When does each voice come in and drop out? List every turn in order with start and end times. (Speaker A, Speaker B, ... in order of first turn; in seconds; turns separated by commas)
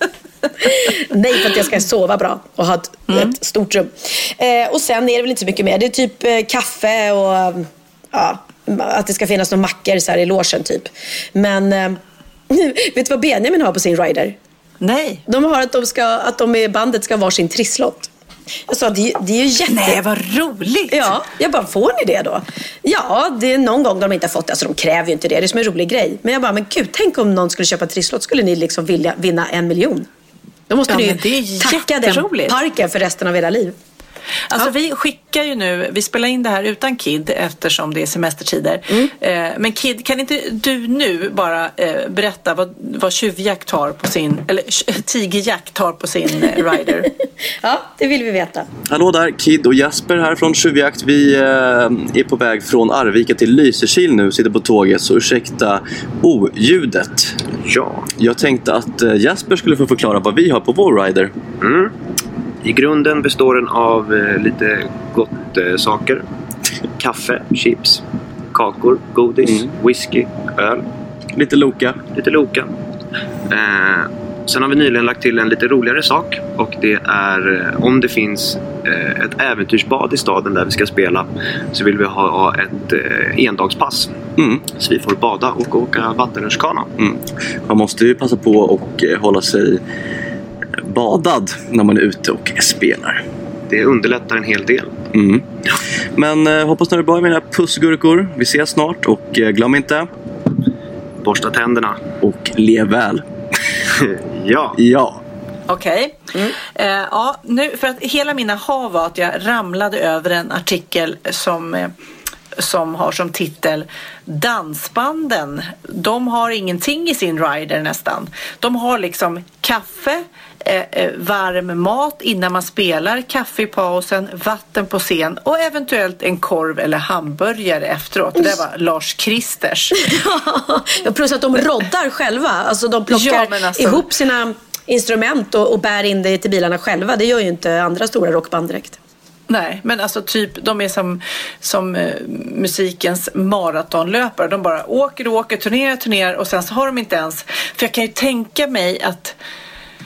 Speaker A: 0.6-14.4, Speaker B: 3.1-3.3, Speaker B: 14.8-15.2, Speaker A: 15.3-18.1, Speaker A: 18.7-20.0, Speaker B: 19.7-21.2, Speaker A: 20.9-30.1, Speaker A: 30.7-33.8, Speaker B: 30.9-32.6, Speaker B: 34.5-47.1, Speaker A: 47.6-48.7, Speaker C: 48.9-57.5, Speaker D: 57.5-58.1, Speaker C: 58.2-61.3, Speaker D: 61.6-61.9, Speaker D: 62.6-66.2, Speaker D: 67.0-68.0, Speaker D: 68.5-70.9, Speaker C: 71.4-72.1, Speaker D: 72.0-72.7, Speaker D: 73.5-86.9, Speaker C: 84.4-84.7, Speaker C: 87.0-89.8, Speaker C: 90.8-93.2, Speaker D: 93.7-95.1, Speaker C: 95.1-95.5, Speaker C: 96.2-100.1, Speaker D: 101.2-102.2, Speaker C: 102.2-103.2, Speaker D: 104.0-104.8, Speaker C: 104.8-105.2, Speaker B: 105.7-106.2, Speaker B: 106.7-111.9, Speaker B: 112.6-130.0, Speaker A: 130.0-139.0, Speaker B: 133.1-134.1, Speaker B: 139.5-149.3